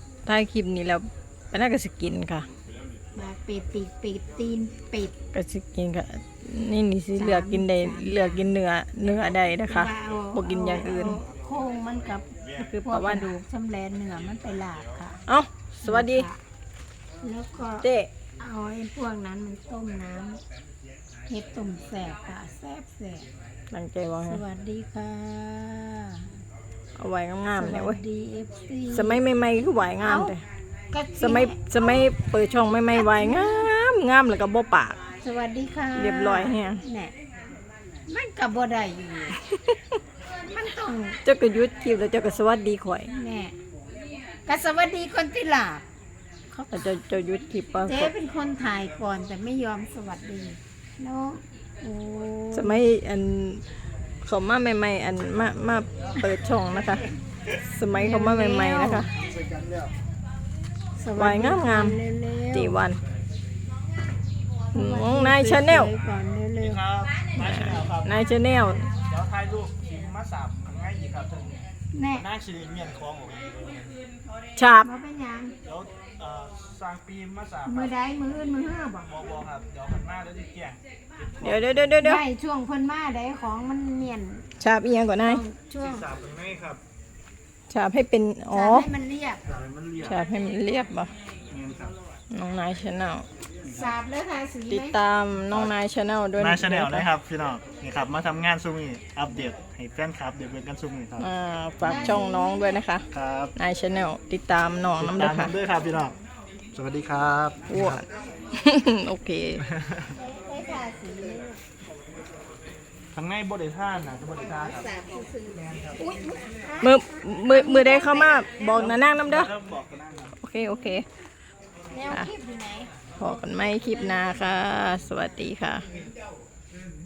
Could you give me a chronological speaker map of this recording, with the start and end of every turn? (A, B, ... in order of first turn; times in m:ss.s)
0:00.2-0:02.5 A
0:03.2-0:05.1 B
0:05.3-0:11.2 A
0:07.2-0:08.4 B
0:09.6-0:15.2 B
0:12.6-0:13.3 A
0:15.3-0:16.3 A
0:15.9-0:16.4 B
0:17.2-0:17.9 B
0:17.8-0:18.1 A
0:18.4-0:20.4 B
0:21.3-0:23.3 B
0:23.7-0:24.4 A
0:24.2-0:26.3 B
0:27.0-0:28.0 A
0:27.6-0:29.2 B
0:28.9-0:30.4 A
0:30.0-0:30.3 B
0:30.9-0:32.1 B
0:31.2-0:35.0 A
0:32.9-0:33.7 B
0:35.2-0:37.1 B
0:36.0-0:36.8 A
0:38.1-0:39.4 B
0:39.5-0:39.8 A
0:40.5-0:41.2 B
0:41.2-0:43.1 A
0:43.1-0:43.5 B
0:44.5-0:45.8 B
0:46.5-0:48.1 A
0:47.8-0:52.8 B
0:52.5-0:53.6 A
0:54.2-0:57.0 A
0:57.6-0:59.1 A
0:57.9-0:59.1 B
1:01.0-1:02.8 B
1:01.2-1:02.0 A
1:02.5-1:03.0 A
1:04.7-1:06.8 B
1:04.7-1:05.9 A
1:06.6-1:08.1 C
1:07.4-1:08.9 A
1:09.0-1:11.6 C
1:11.9-1:12.2 B
1:12.2-1:13.8 C
1:14.6-1:14.9 A
1:14.8-1:15.6 B
1:15.7-1:17.9 C
1:17.7-1:19.2 B
1:19.0-1:20.8 C
1:21.4-1:22.2 A
1:22.0-1:24.5 B
1:24.6-1:25.4 A
1:25.2-1:26.1 B
1:25.8-1:26.8 C
1:27.7-1:28.9 A
1:28.5-1:29.4 B
1:29.5-1:30.2 C
1:30.0-1:31.1 A
1:31.5-1:31.9 C
1:32.3-1:33.2 A
1:33.7-1:35.0 B
1:34.7-1:37.1 A
1:36.4-1:41.3 C
1:41.2-1:43.0 A
1:41.8-1:42.8 B
1:43.1-1:43.5 C
1:43.6-1:45.5 A
1:45.0-1:46.2 C
1:46.7-1:48.0 C
1:47.7-1:48.0 A
1:48.6-1:49.6 A
1:49.7-1:50.0 C
1:50.2-1:51.6 B
1:53.1-1:54.8 C
1:54.4-1:58.8 B
1:56.8-1:59.5 A
1:58.8-2:00.3 C
2:00.4-2:01.0 A
2:01.9-2:02.9 B
2:03.2-2:05.8 A